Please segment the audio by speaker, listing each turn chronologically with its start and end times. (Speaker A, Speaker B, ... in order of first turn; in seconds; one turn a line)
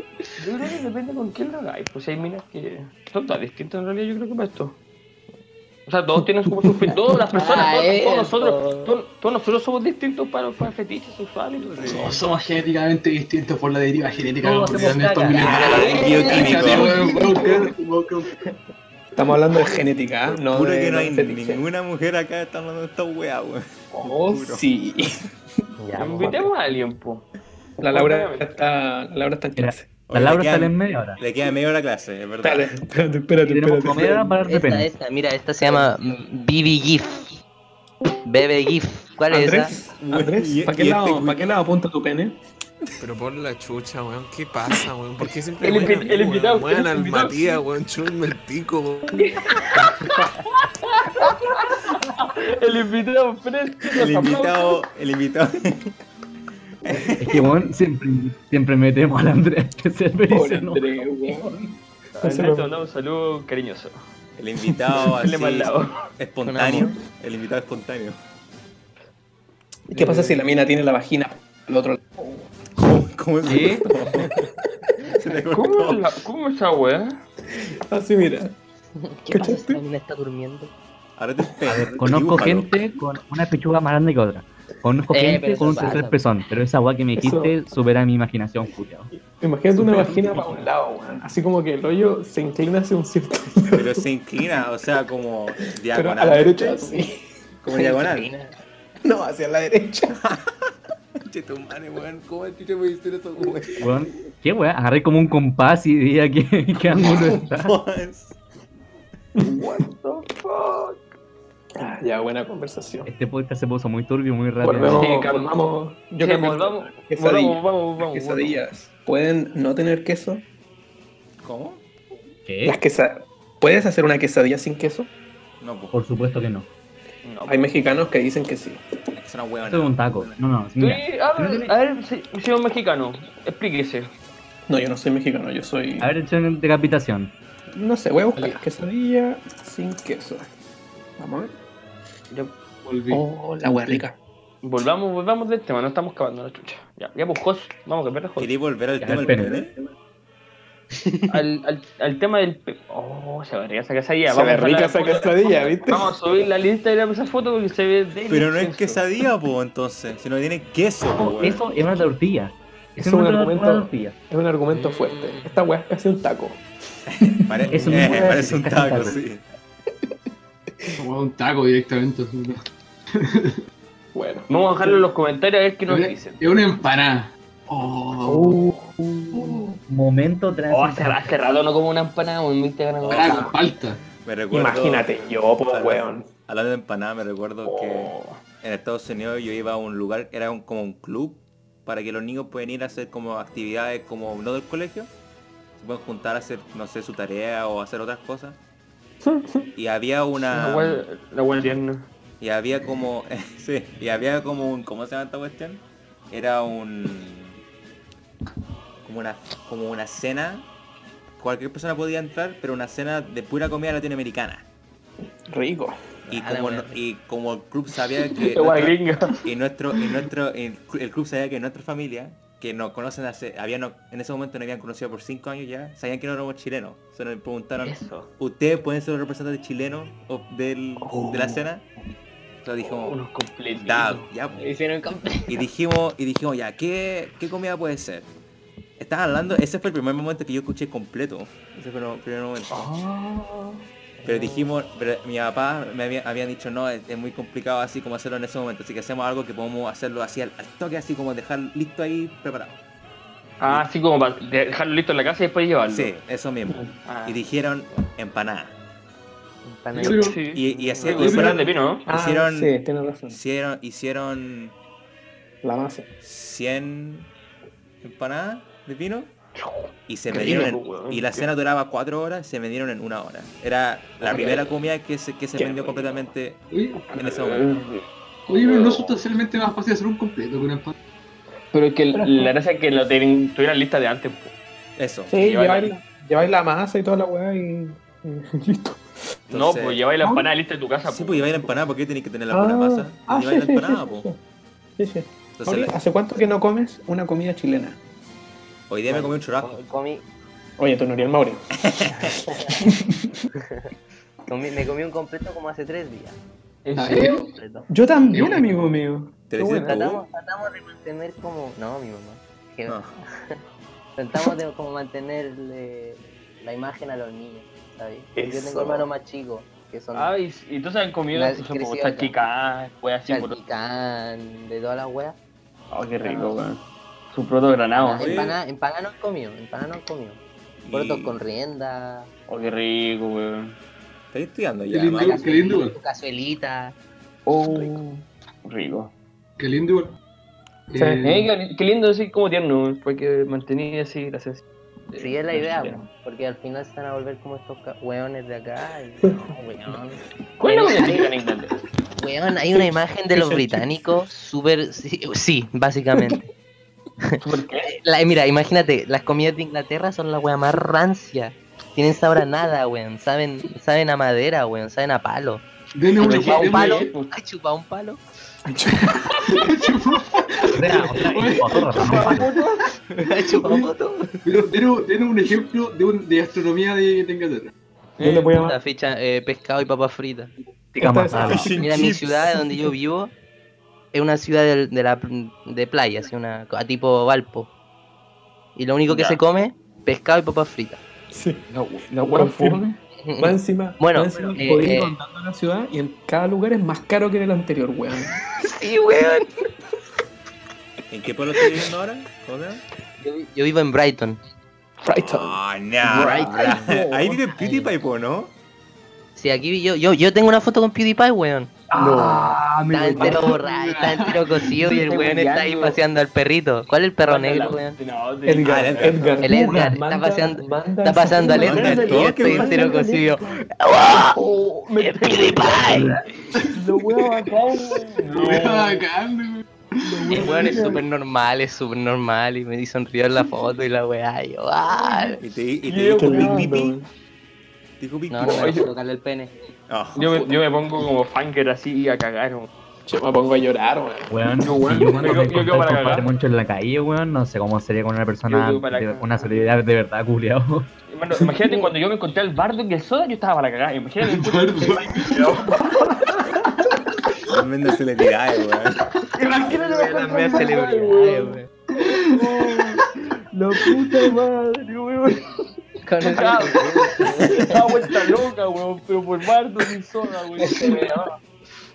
Speaker A: 0.4-4.8
Speaker A: 5.9-12.2
Speaker B: 6.2-7.0
Speaker C: 7.3-9.0
Speaker D: 11.6-12.2
Speaker E: 11.8-18.4
Speaker C: 14.4-17.1
Speaker F: 14.8-15.1
Speaker D: 15.3-16.9
Speaker A: 15.6-17.6
Speaker B: 19.2-21.6
Speaker D: 20.2-24.6
Speaker B: 23.9-25.2
Speaker C: 25.8-26.5
Speaker A: 26.0-27.3
Speaker B: 27.8-29.9
Speaker A: 27.9-28.5
Speaker F: 29.6-31.2
Speaker D: 30.1-32.8
Speaker B: 32.4-34.4
Speaker F: 33.5-34.9
Speaker C: 34.5-37.3
Speaker C: 38.2-39.7
Speaker B: 39.3-42.4
Speaker D: 40.0-41.4
Speaker G: 43.0-49.3
Speaker A: 45.6-47.6
Speaker A: 49.2-50.7
Speaker A: 51.2-54.8
Speaker D: 54.0-55.9
Speaker D: 56.8-57.5
Speaker F: 57.2-61.8
Speaker B: 60.3-61.5
Speaker A: 62.2-64.0
Speaker B: 62.2-62.8
Speaker D: 64.4-68.2
Speaker B: 64.7-65.0
Speaker A: 65.1-66.0
Speaker C: 66.5-66.9
Speaker B: 69.9-72.5
Speaker D: 72.8-74.3
Speaker F: 73.5-73.8
Speaker D: 75.1-76.0
Speaker A: 75.5-77.2
Speaker B: 77.9-78.5
Speaker C: 79.0-80.7
Speaker B: 79.3-79.8
Speaker D: 81.2-82.8
Speaker F: 81.7-89.1
Speaker C: 85.1-86.2
Speaker B: 87.2-87.6
Speaker B: 89.3-94.0
Speaker F: 89.8-90.6
Speaker D: 93.8-97.0
Speaker B: 95.9-97.2
Speaker D: 97.6-98.3
Speaker C: 97.7-98.6
Speaker B: 99.0-100.2
Speaker D: 100.2-103.8
Speaker F: 103.8-107.7
Speaker D: 107.0-108.4
Speaker A: 109.4-111.1
Speaker B: 111.8-113.1
Speaker F: 113.1-115.1
Speaker B: 114.6-120.4
Speaker A: 114.8-115.6
Speaker A: 116.2-118.6
Speaker D: 121.4-121.8
Speaker F: 122.5-122.8
Speaker B: 122.6-125.1
Speaker D: 125.6-126.0
Speaker F: 125.9-126.7
Speaker A: 127.2-127.7
Speaker B: 127.5-128.8
Speaker D: 129.2-130.3
Speaker F: 129.7-131.7
Speaker A: 130.8-134.1
Speaker B: 134.7-136.1
Speaker F: 136.0-137.3
Speaker B: 137.7-140.5
Speaker B: 141.2-141.5
Speaker E: 142.8-144.1
Speaker B: 143.1-144.2
Speaker A: 144.6-148.5
Speaker D: 148.4-149.8
Speaker F: 149.0-149.7
Speaker A: 151.3-159.1
Speaker B: 154.3-156.1
Speaker D: 158.3-162.0
Speaker F: 161.1-164.2
Speaker B: 163.0-166.6
Speaker A: 164.8-165.4
Speaker B: 167.2-167.7
Speaker D: 167.4-169.4
Speaker F: 167.7-169.2
Speaker E: 171.0-172.6
Speaker E: 173.1-173.6
Speaker B: 174.1-175.0
Speaker A: 174.5-176.4
Speaker E: 175.9-178.6
Speaker B: 178.3-179.7
Speaker E: 179.4-179.7
Speaker F: 179.9-181.3
Speaker A: 180.7-183.5
Speaker D: 183.0-183.5
Speaker E: 183.1-184.0
Speaker D: 184.2-185.1
Speaker B: 184.5-186.3
Speaker D: 185.7-195.1
Speaker A: 187.7-188.4
Speaker D: 195.8-198.6
Speaker B: 199.2-199.7
Speaker D: 199.8-201.0
Speaker A: 200.5-202.1
Speaker D: 202.4-207.6
Speaker D: 209.0-210.7
Speaker D: 211.4-214.7
Speaker B: 215.5-216.0
Speaker D: 216.3-231.9
Speaker C: 216.3-217.0
Speaker A: 218.3-219.4
Speaker A: 227.8-228.3
Speaker B: 231.0-231.7
Speaker D: 232.6-233.2
Speaker A: 232.8-234.3
Speaker D: 233.8-234.7
Speaker C: 234.6-235.7
Speaker D: 235.5-238.3
Speaker D: 239.0-242.9
Speaker A: 242.7-243.8
Speaker C: 244.2-244.7
Speaker D: 244.2-252.8
Speaker A: 253.6-256.1
Speaker D: 255.9-258.8
Speaker A: 257.1-258.0
Speaker C: 259.6-260.4
Speaker E: 259.9-260.5
Speaker A: 260.1-262.1
Speaker D: 260.5-262.7
Speaker E: 261.0-261.7
Speaker B: 262.1-263.4
Speaker D: 263.3-264.8
Speaker B: 265.6-266.1
Speaker D: 266.2-267.3
Speaker D: 268.0-269.3
Speaker D: 270.1-276.6
Speaker B: 270.3-270.8
Speaker A: 270.3-271.5
Speaker A: 274.3-274.6
Speaker B: 275.6-276.3
Speaker E: 276.7-277.2
Speaker D: 277.1-277.7
Speaker A: 277.2-279.2
Speaker E: 278.5-280.9
Speaker A: 281.7-284.5
Speaker B: 282.1-282.5
Speaker D: 285.0-285.4
Speaker B: 285.3-289.4
Speaker A: 285.4-285.9
Speaker D: 289.5-290.1
Speaker A: 289.5-291.8
Speaker B: 290.2-290.5
Speaker D: 291.1-294.3
Speaker B: 292.5-294.4
Speaker B: 295.0-298.0
Speaker D: 295.6-296.0
Speaker D: 298.9-299.8
Speaker C: 299.1-300.2
Speaker B: 300.8-303.1
Speaker D: 301.8-302.4
Speaker C: 304.5-306.4
Speaker A: 306.9-307.4
Speaker B: 307.0-310.0
Speaker C: 307.0-308.6
Speaker D: 309.5-310.2
Speaker C: 309.8-313.6
Speaker D: 312.9-313.2
Speaker C: 314.2-320.4
Speaker B: 318.4-319.1
Speaker A: 320.1-323.6
Speaker C: 321.3-322.3
Speaker C: 323.3-325.4
Speaker A: 325.9-328.3
Speaker C: 326.2-326.6
Speaker C: 328.0-330.4
Speaker D: 328.2-328.6
Speaker D: 330.8-331.4
Speaker C: 330.9-332.3
Speaker A: 332.5-333.8
Speaker D: 334.3-335.4
Speaker E: 334.9-336.0
Speaker C: 335.1-337.0
Speaker A: 337.5-339.1
Speaker B: 337.6-337.9
Speaker E: 339.6-340.1
Speaker E: 340.9-341.5
Speaker B: 340.9-341.3
Speaker A: 341.2-346.1
Speaker C: 345.2-351.3
Speaker A: 350.6-351.7
Speaker C: 352.2-356.5
Speaker B: 353.3-353.8
Speaker C: 357.3-365.6
Speaker A: 357.4-357.9
Speaker E: 365.9-367.1
Speaker C: 366.2-368.2
Speaker A: 366.2-367.3
Speaker B: 368.7-369.3
Speaker E: 369.4-372.7
Speaker F: 370.8-372.5
Speaker A: 372.1-372.8
Speaker C: 373.2-374.4
Speaker E: 373.6-373.9
Speaker E: 374.4-377.7
Speaker A: 378.2-378.6
Speaker B: 378.2-378.8
Speaker C: 378.6-380.5
Speaker B: 380.9-381.8
Speaker F: 381.0-381.8
Speaker D: 381.4-382.7
Speaker C: 381.8-383.3
Speaker C: 384.1-387.7
Speaker C: 388.8-391.0
Speaker D: 389.1-389.4
Speaker B: 391.3-391.6
Speaker A: 391.7-393.0
Speaker B: 392.3-392.9
Speaker C: 393.2-395.1
Speaker B: 393.4-398.4
Speaker A: 398.6-399.5
Speaker D: 401.1-402.8
Speaker C: 403.2-404.4
Speaker B: 405.1-407.1
Speaker D: 405.3-408.5
Speaker C: 406.1-406.8
Speaker C: 407.5-407.9
Speaker C: 409.4-411.7
Speaker B: 411.9-412.6
Speaker F: 411.9-413.5
Speaker C: 412.9-418.0
Speaker E: 413.2-414.9
Speaker A: 414.9-416.0
Speaker A: 417.2-419.4
Speaker B: 418.5-423.6
Speaker D: 418.7-419.4
Speaker C: 419.4-424.4
Speaker A: 421.5-422.4
Speaker D: 421.6-422.9
Speaker A: 424.2-426.2
Speaker C: 425.0-426.1
Speaker B: 425.8-426.2
Speaker B: 426.7-428.2
Speaker A: 426.7-429.0
Speaker E: 428.3-431.0
Speaker B: 430.0-431.0
Speaker C: 430.3-435.4
Speaker D: 435.4-436.9
Speaker A: 435.9-436.8
Speaker B: 436.2-437.0
Speaker D: 438.0-438.8
Speaker C: 438.3-439.5
Speaker A: 438.4-438.9
Speaker D: 439.9-440.4
Speaker A: 440.2-442.7
Speaker B: 440.2-440.6
Speaker B: 443.1-445.4
Speaker F: 444.3-450.9
Speaker A: 444.6-446.3
Speaker A: 448.5-449.6
Speaker A: 451.1-455.9
Speaker B: 451.4-451.8
Speaker E: 454.2-455.7
Speaker B: 455.8-456.1
Speaker D: 457.5-459.0
Speaker A: 459.3-461.6
Speaker C: 459.5-461.7
Speaker E: 462.0-462.5
Speaker A: 462.4-463.1
Speaker B: 463.6-464.1
Speaker A: 463.7-465.7
Speaker C: 466.0-467.8
Speaker A: 466.2-471.3
Speaker C: 470.8-471.3